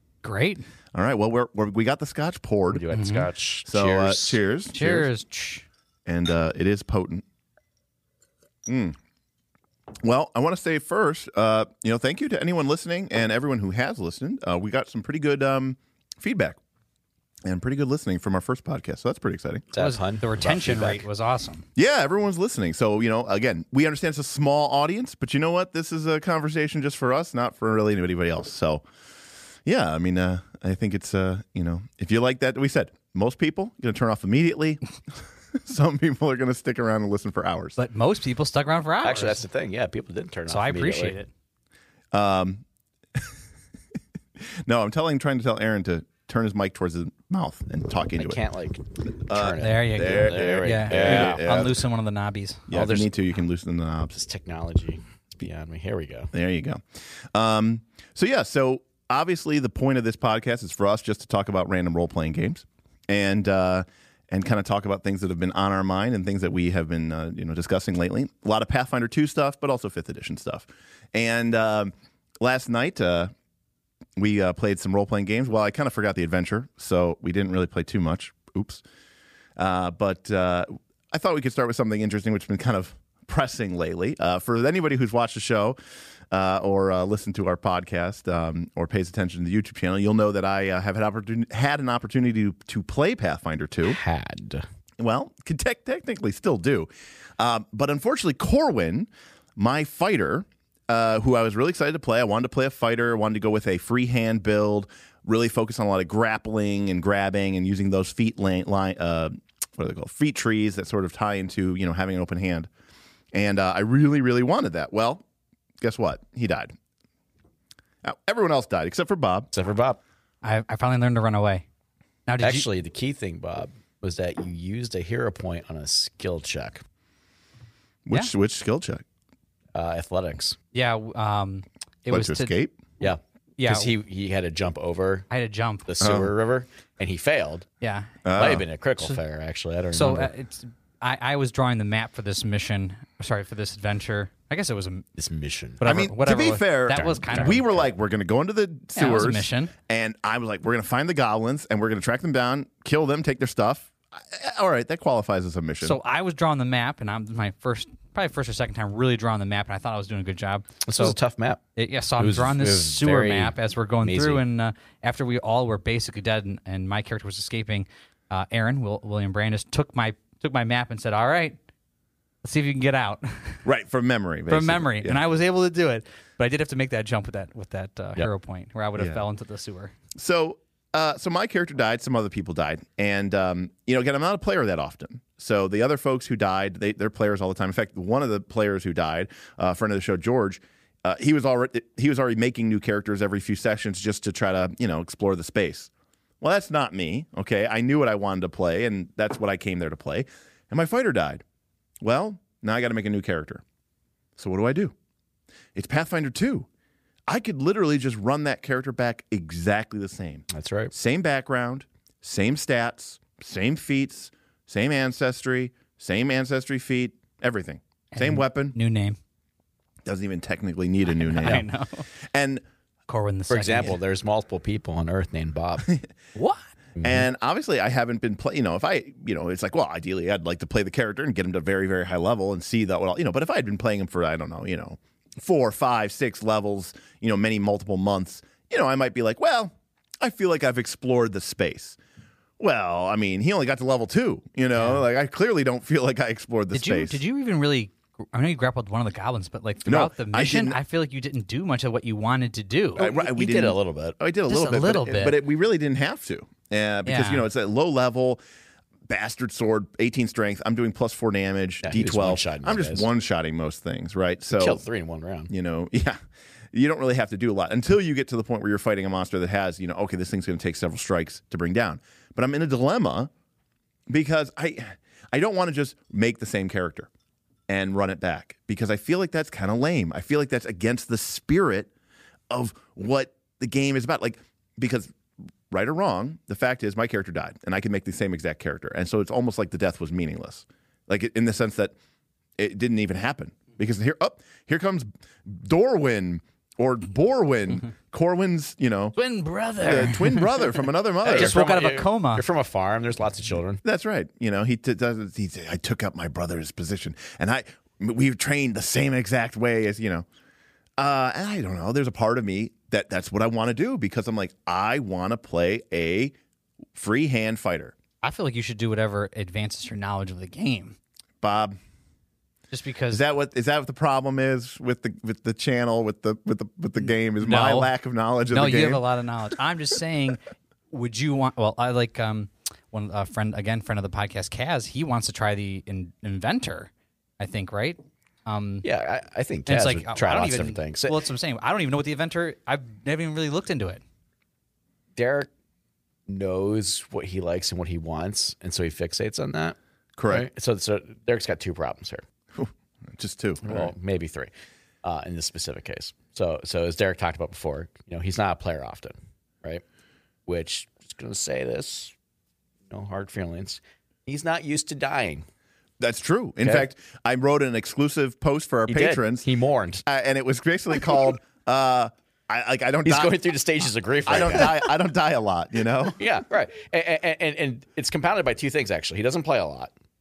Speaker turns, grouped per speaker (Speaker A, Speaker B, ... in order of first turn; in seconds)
Speaker A: 0.2-0.6, 2.9-3.3, 4.7-5.7, 19.8-21.6, 37.8-39.4, 40.5-41.3, 49.6-52.6, 120.4-121.6, 122.3-122.7, 130.7-132.5, 133.6-133.9, 135.3-135.9, 137.8-138.2, 139.9-145.0, 145.8-147.8, 148.9-149.7, 155.8-161.2, 161.8-171.6, 172.4-173.6, 174.5-179.9, 218.1-219.2, 221.1-222.1, 223.1-224.0, 226.3-226.7, 244.7-245.0, 246.7-253.0, 254.5-255.4, 257.1-257.4, 299.1-300.7, 301.2-302.4, 318.2-320.9, 322.7-323.2, 327.4-327.9, 328.5-330.4, 330.9-338.9, 339.7-344.0
Speaker B: 0.9-2.8, 3.6-5.1, 6.0-7.2, 8.7-9.0, 10.0-16.6, 17.4-19.6, 21.8-28.8, 29.6-37.8, 42.1-42.6, 44.4-48.4, 49.3-51.8, 52.7-54.2, 56.3-56.8, 57.3-73.3, 74.2-78.8, 79.6-85.8, 86.3-94.0, 95.0-112.7, 113.3-115.2, 115.8-116.7, 118.0-119.5, 128.0-129.0, 132.1-132.8, 136.0-136.3, 138.2-138.7, 145.8-156.0, 173.6-175.2, 179.0-179.2, 180.1-195.9, 196.4-201.4, 202.0-203.6, 204.3-204.9, 205.7-206.7, 207.3-218.8, 220.0-221.7, 222.2-222.6, 227.0-242.0, 242.6-247.2, 249.8-250.8, 253.0-258.4, 259.1-264.8, 265.5-266.2, 266.7-273.3, 274.1-277.1, 277.7-281.9, 282.5-285.1, 285.7-291.9, 292.6-299.1, 299.8-301.5, 303.8-310.2, 311.0-316.3, 316.9-317.9, 321.4-321.8, 323.1-329.0, 350.2-350.5, 352.5-353.9, 366.0-369.5, 370.0-373.4, 374.2-376.2
Speaker C: 2.7-4.4, 19.7-21.0, 39.0-41.1, 48.2-51.5, 52.7-53.1, 54.2-56.3, 93.8-94.6, 119.5-120.0, 122.4-126.8, 129.7-130.6, 133.0-135.3, 135.8-137.7, 138.3-140.3, 145.2-145.8, 146.9-147.6, 160.8-161.6, 162.2-164.4, 210.5-210.9, 223.5-225.9, 227.0-227.2, 253.0-254.2, 261.8-263.1, 264.5-265.5, 301.2-303.8, 338.8-341.2, 345.1-345.5, 346.3-349.8, 350.3-352.2, 353.6-354.5, 355.0-359.8, 360.5-362.1, 362.9-365.4, 368.9-370.0, 373.0-374.9, 376.2-379.9